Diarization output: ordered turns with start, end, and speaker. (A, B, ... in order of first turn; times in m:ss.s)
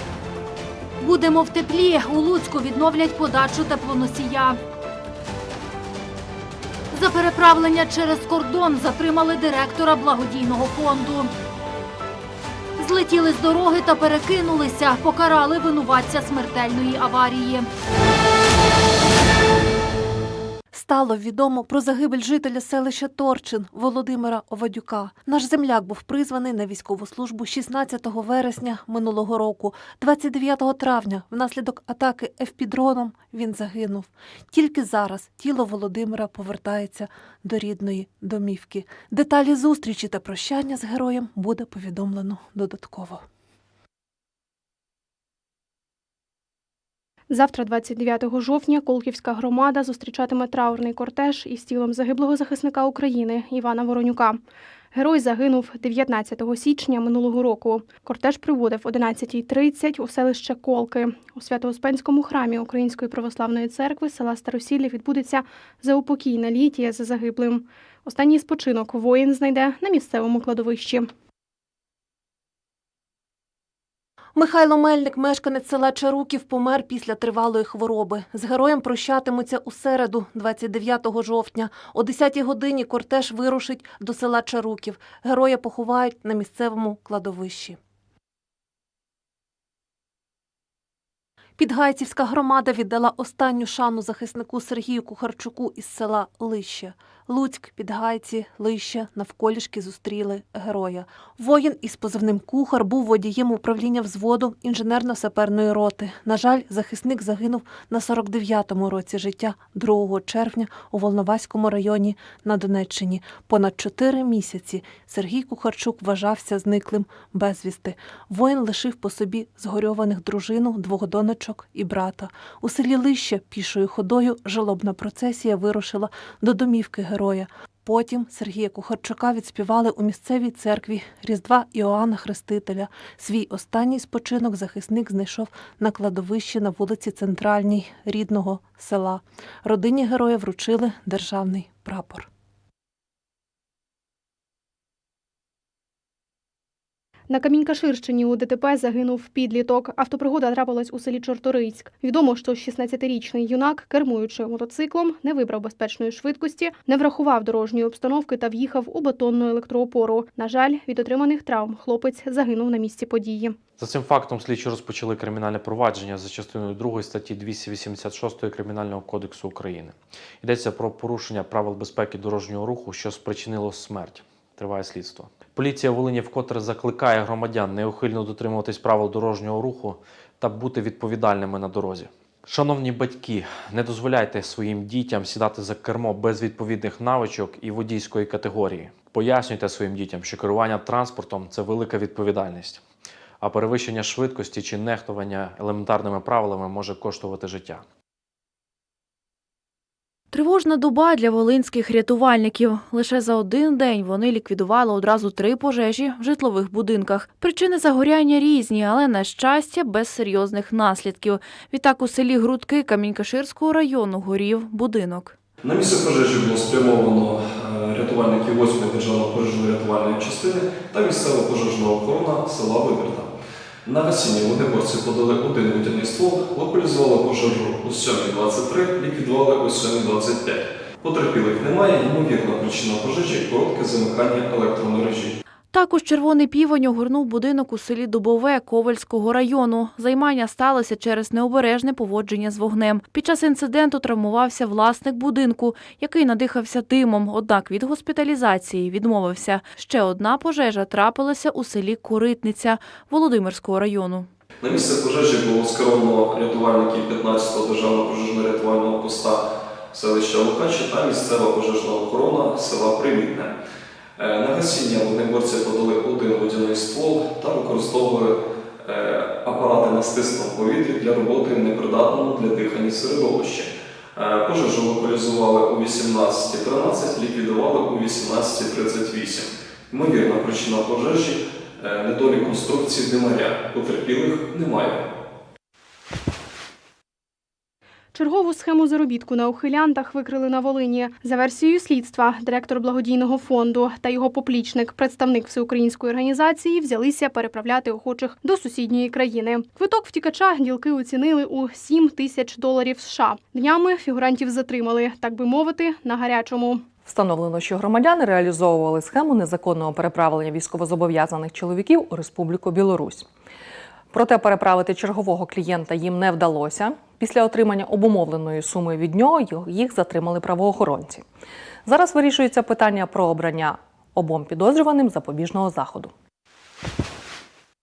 0:01.0-0:04.6 A
0:06.9-0:11.3 A
0:12.8-0:17.7 A
0:20.7-0:43.2 B
0:47.3-0:54.4 C
0:54.9-1:11.1 C
1:14.3-1:27.8 B
1:31.6-2:22.3 B
2:27.3-2:43.6 C
2:43.8-3:12.8 D
3:13.4-3:17.8 D
3:20.3-3:35.3 E
3:35.6-3:43.3 F
3:43.8-3:55.4 F
3:55.7-4:14.3 E
4:14.6-4:23.5 F
4:24.2-4:45.0 F
4:48.1-5:06.9 C
5:07.0-5:13.2 G
5:14.1-5:21.2 G
5:21.8-5:26.1 G